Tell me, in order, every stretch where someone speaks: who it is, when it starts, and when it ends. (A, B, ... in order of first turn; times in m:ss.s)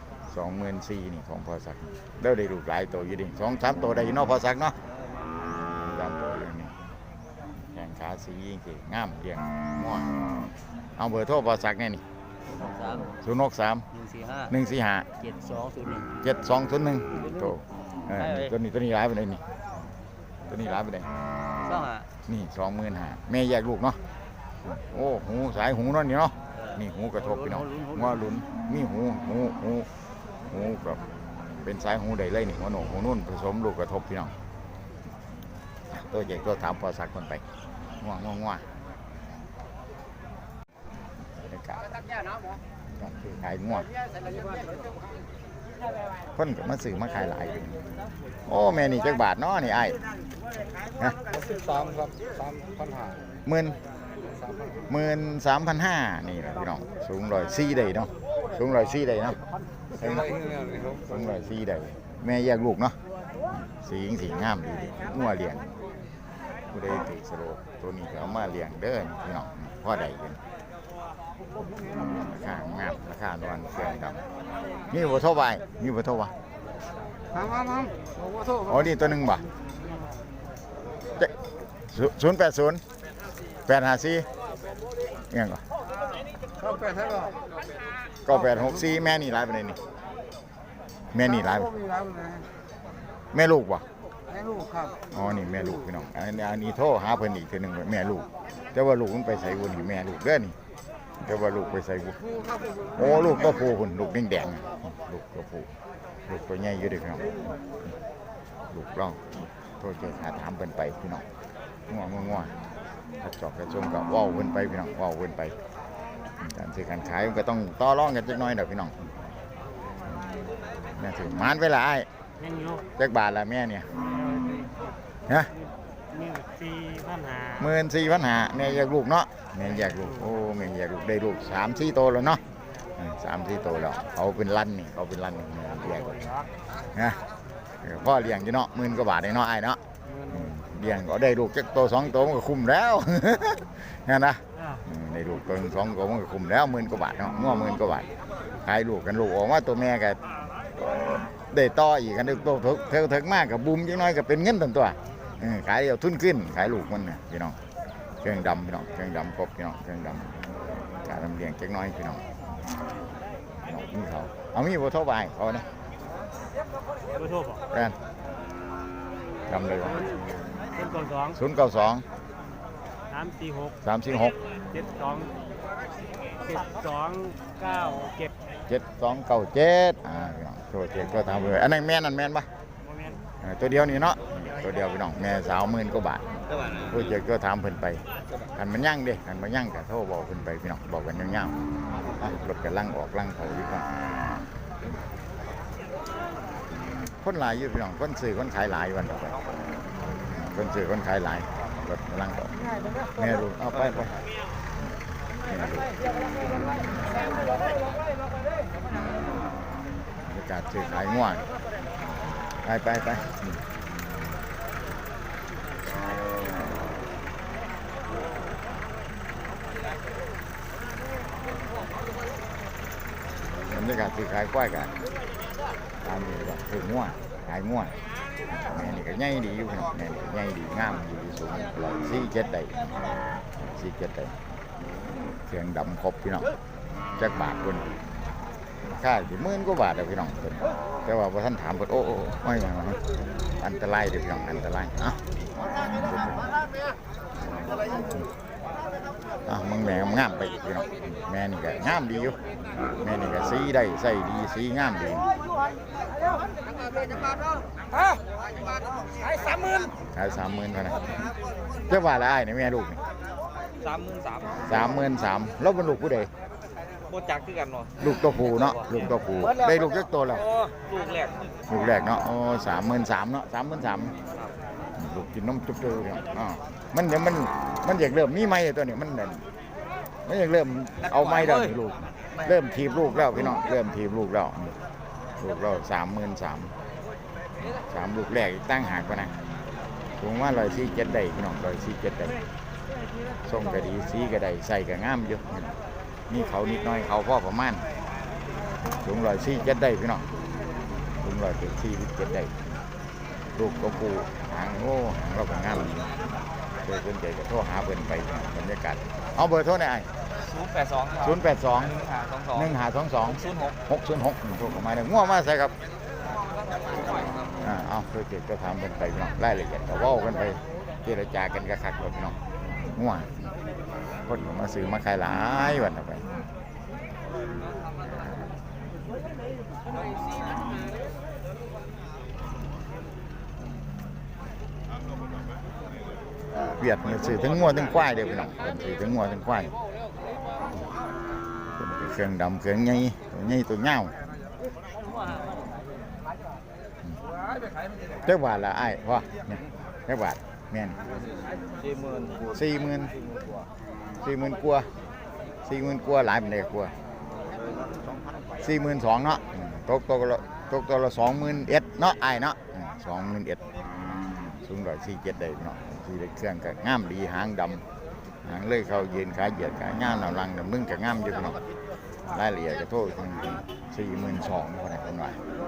0:00.2-0:04.8 A
0:05.6-0:06.8 A
0:07.6-0:10.1 A
0:11.0-0:12.0 A
0:12.5-0:13.1 B
0:13.2-0:13.9 A
0:14.0-0:14.5 B
0:14.5-0:15.1 A
0:15.2-0:16.1 B
0:16.2-0:19.4 A
0:20.4-0:21.1 A
0:21.6-0:22.1 B
0:22.3-0:24.0 A
0:24.6-0:29.9 A
0:27.5-0:28.1 B
0:30.5-0:34.4 A
0:35.9-0:37.4 A
0:38.0-0:38.7 A
0:41.2-0:42.0 A
0:42.9-0:43.9 A
0:46.4-0:47.9 A
0:48.4-0:50.0 A
0:53.4-0:53.8 A
0:54.9-0:59.4 A
0:59.9-1:03.0 A
1:03.5-1:05.7 A
1:06.7-1:10.4 A
1:12.2-1:14.2 A
1:14.9-1:16.3 A
1:17.5-1:17.7 A
1:18.5-1:19.5 A
1:21.9-1:22.8 A
1:23.7-1:24.3 A
1:25.3-1:25.6 A
1:28.2-1:29.8 A
1:31.1-1:31.9 A
1:33.3-1:33.9 A
1:35.1-1:40.6 A
1:41.2-1:42.2 A
1:42.9-1:48.0 A
1:48.7-1:51.2 A
1:51.9-1:52.6 A
1:53.2-1:55.6 A
1:56.4-1:59.1 A
2:00.0-2:00.3 A
2:00.9-2:02.1 A
2:02.4-2:02.8 C
2:03.0-2:03.9 A
2:04.0-2:04.9 C
2:05.3-2:05.5 A
2:05.6-2:07.7 C
2:07.6-2:12.4 A
2:09.9-2:10.4 C
2:13.0-2:16.4 A
2:15.8-2:16.5 C
2:16.9-2:17.2 A
2:17.8-2:30.2 A
2:20.1-2:20.4 C
2:24.6-2:24.8 C
2:30.8-2:37.6 A
2:38.2-2:40.4 A
2:41.0-2:42.3 A
2:43.6-2:45.7 A
2:47.2-2:47.6 C
2:47.7-2:48.0 A
2:49.5-2:50.2 A
2:50.8-2:51.4 C
2:51.3-2:52.0 A
2:53.1-2:53.8 C
2:53.8-2:54.4 A
2:54.7-2:55.3 C
2:56.4-2:58.3 C
2:58.7-3:02.5 A
3:02.9-3:03.2 C
3:03.4-3:11.5 A
3:12.2-3:13.9 A
3:17.2-3:19.4 A
3:20.2-3:22.6 A
3:23.2-3:24.2 A
3:25.4-3:27.3 A
3:30.2-3:31.5 A
3:32.6-3:33.6 A
3:43.7-3:44.9 A
3:46.0-3:48.0 A
3:48.5-3:53.0 A
3:53.6-3:54.4 A
3:55.4-3:56.5 A
3:57.2-3:57.9 A
3:58.8-4:03.0 A
4:03.6-4:05.2 A
4:05.9-4:06.5 A
4:09.5-4:12.4 A
4:13.0-4:15.3 A
4:20.1-4:21.3 A
4:21.8-4:23.0 A
4:23.8-4:24.7 B
4:24.7-4:26.3 A
4:27.1-4:28.0 B
4:28.0-4:30.5 A
4:30.5-4:31.3 B
4:31.7-4:34.2 A
4:35.0-4:39.5 A
4:40.2-4:44.8 A
4:45.4-4:46.8 A
4:47.6-4:49.4 A
4:50.2-4:52.4 A
4:53.4-4:55.8 A
4:56.3-4:57.9 A
4:59.0-5:00.3 A
5:01.2-5:02.7 A
5:03.6-5:06.2 A
5:06.8-5:10.1 A
5:10.4-5:11.2 B
5:11.2-5:15.8 A
5:12.0-5:12.5 B
5:16.8-5:17.4 B
5:17.6-5:22.4 A
5:22.9-5:23.5 A
5:24.2-5:26.3 A
5:36.7-5:39.8 A
5:41.8-5:44.2 A
5:48.2-5:51.0 A
5:51.8-5:52.4 B
5:52.5-5:53.2 A
5:54.2-5:54.9 A
5:55.6-5:57.0 A
5:58.6-6:03.6 A
6:04.6-6:07.8 A
6:08.4-6:11.6 A
6:12.3-6:15.4 A